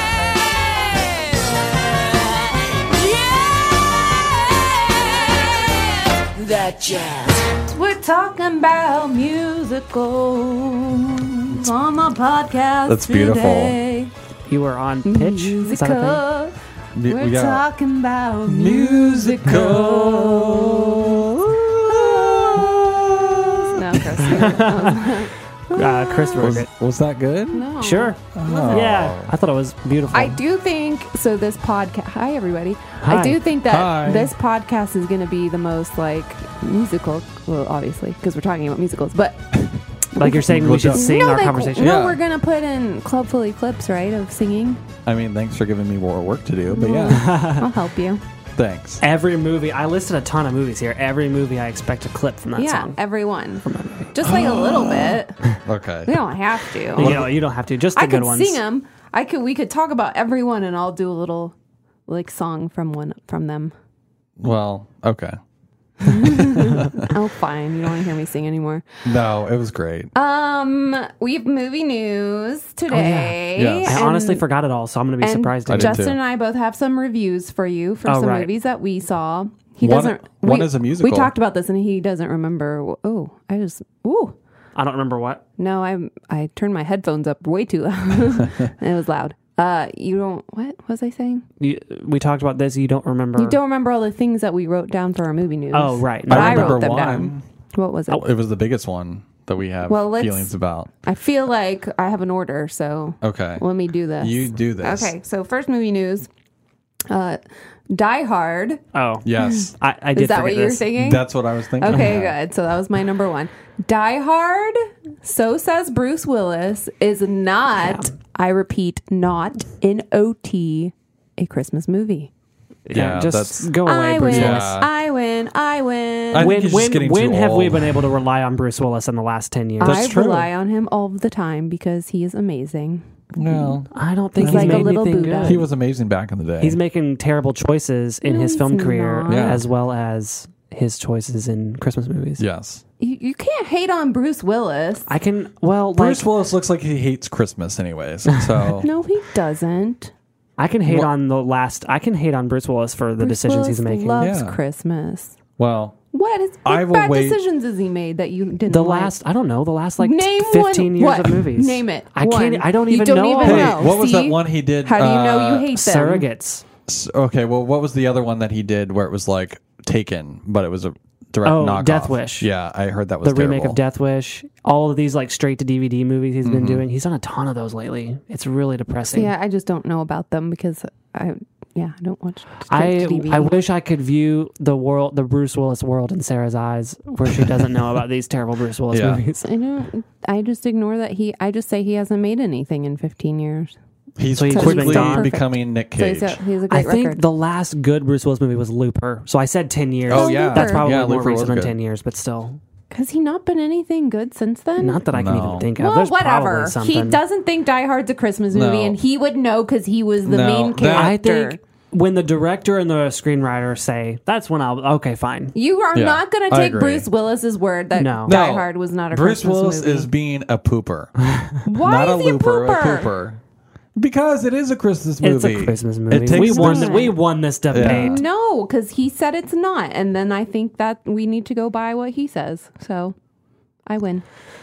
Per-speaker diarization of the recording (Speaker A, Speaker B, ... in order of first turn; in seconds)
Speaker A: 0.9-1.5, 2.4-14.1, 15.1-16.6, 17.1-21.3, 21.8-26.6, 27.5-28.8, 30.1-39.6, 40.2-44.8, 46.7-48.2, 52.6-55.4, 56.1-57.3, 58.0-61.5, 62.1-63.7, 66.0-69.0, 70.1-74.4, 75.2-84.4, 85.6-91.5, 93.4-98.2, 99.9-106.3, 107.1-108.8, 110.1-122.3, 123.8-126.6, 129.8-133.7, 134.4-135.7, 138.2-139.6, 143.0-145.1, 148.8-150.1, 153.2-155.3, 156.1-159.2, 160.0-166.3, 179.1-183.6, 189.4-193.8, 194.5-197.2, 200.1-200.9, 202.9-205.0, 205.8-211.6, 215.5-220.1, 221.6-223.1, 226.3-227.2, 227.8-233.2, 233.8-234.2
Speaker B: 12.9-13.8, 16.9-17.6, 18.4-24.3, 26.4-27.7, 28.3-29.3, 33.7-34.3, 40.3-41.2, 41.8-42.2, 45.0-47.3, 48.6-49.0, 54.2-56.2, 56.9-57.3, 64.4-65.4, 66.0-67.1, 69.0-70.1, 73.5-74.0, 75.7-76.2, 79.8-81.3, 96.3-97.4, 98.1-100.9, 103.2-103.6, 104.2-105.1, 109.2-109.7, 111.0-112.3, 122.9-123.7, 124.2-124.9, 126.3-128.0, 129.8-130.5, 133.3-136.8, 139.3-139.6, 142.4-142.8, 146.0-148.9, 154.2-154.6, 155.6-156.0, 156.7-157.4, 163.4-165.7, 166.9-173.8, 176.4-176.8, 187.3-187.7, 188.9-189.2, 194.2-196.4, 200.1-201.7, 205.1-205.7, 208.5-209.0, 210.2-211.2, 215.9-217.1, 218.2-223.4, 224.0-227.1, 227.7-228.2
Speaker C: 14.5-16.2, 19.5-19.7, 24.3-26.7, 27.8-30.4, 33.0-33.4, 40.1-42.0, 47.1-47.7, 49.0-53.0, 53.6-54.1, 57.0-58.6, 72.9-76.1, 78.1-78.5, 84.8-85.4, 91.6-93.6, 95.7-96.9, 108.9-110.9, 117.8-118.1, 122.8-124.8, 126.4-130.1, 133.9-135.6, 136.6-142.4, 145.1-146.2, 150.6-154.2, 158.7-163.9, 165.7-166.6, 171.4-172.5, 173.2-179.3, 182.7-189.5, 194.4-195.3, 196.7-202.6, 204.8-207.2, 210.9-215.5, 217.9-218.3, 225.2-228.2